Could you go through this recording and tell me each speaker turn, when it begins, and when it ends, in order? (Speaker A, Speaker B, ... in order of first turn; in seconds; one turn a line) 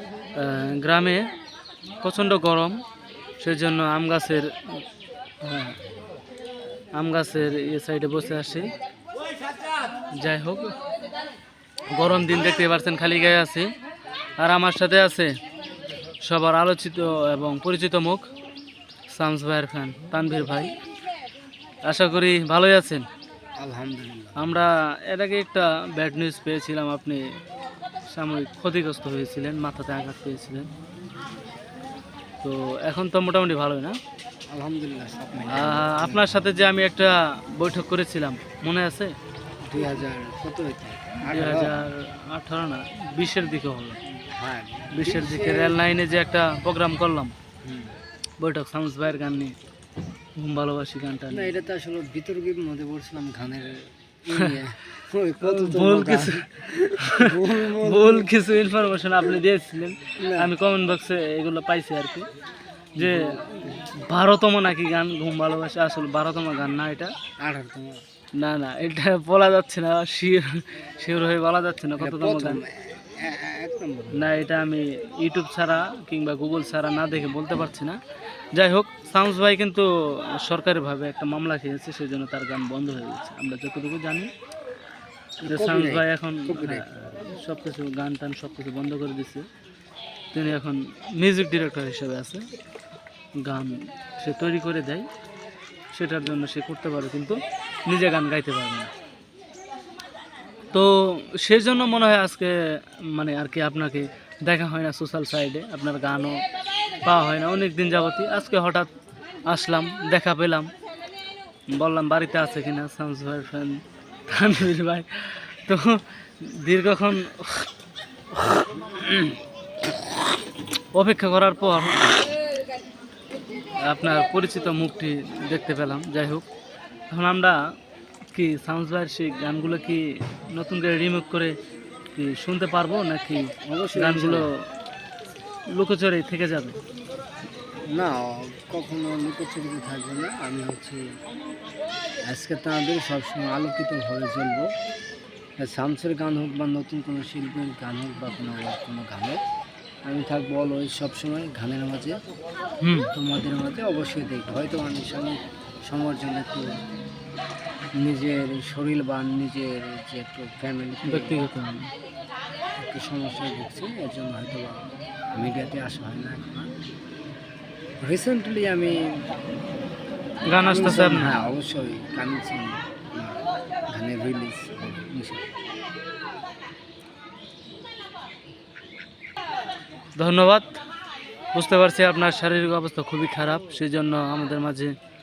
Speaker A: 0.3-1.3
Speaker A: 2.0-2.8
Speaker A: 3.4-4.8
Speaker A: 5.4-5.8
Speaker A: 7.0-8.7
Speaker A: 10.2-10.7
Speaker A: 11.9-13.7
Speaker A: 14.4-15.3
Speaker A: 16.2-18.3
Speaker A: 19.1-20.7
Speaker A: 21.9-23.1
Speaker B: 23.6-24.6
Speaker A: 24.4-27.2
Speaker A: 28.1-30.7
Speaker A: 32.4-34.0
Speaker B: 34.5-36.4
Speaker A: 35.5-39.1
Speaker B: 39.6-41.7
Speaker A: 41.3-44.0
Speaker B: 44.1-45.8
Speaker A: 44.9-47.3
Speaker B: 47.6-48.0
Speaker A: 48.4-49.5
Speaker A: 50.4-51.5
Speaker B: 51.3-58.3
Speaker A: 55.4-62.3
Speaker B: 60.2-60.5
Speaker A: 63.0-67.1
Speaker B: 63.0-63.4
Speaker B: 67.4-68.0
Speaker A: 68.4-72.6
Speaker B: 72.0-74.3
Speaker A: 74.1-78.0
Speaker A: 78.5-84.3
Speaker B: 85.4-86.9
Speaker A: 85.5-89.5
Speaker A: 90.3-92.4
Speaker A: 93.4-95.1
Speaker A: 95.9-98.9
Speaker A: 100.7-106.4
Speaker A: 107.0-108.9
Speaker A: 109.5-110.7
Speaker A: 111.7-117.7
Speaker A: 120.9-122.1
Speaker A: 123.8-126.5
Speaker A: 127.1-127.6
Speaker A: 128.3-131.5
Speaker A: 132.1-134.6
Speaker B: 133.6-134.5
Speaker A: 135.7-136.8
Speaker B: 137.9-141.0
Speaker B: 142.3-144.7
Speaker B: 145.6-149.4
Speaker B: 150.1-152.2
Speaker A: 152.8-153.1
Speaker B: 153.1-156.7
Speaker B: 158.0-161.4
Speaker A: 161.1-161.9
Speaker B: 162.8-166.7
Speaker B: 168.0-169.2
Speaker A: 170.5-171.5
Speaker B: 170.6-175.6
Speaker A: 180.2-180.8
Speaker A: 181.5-184.9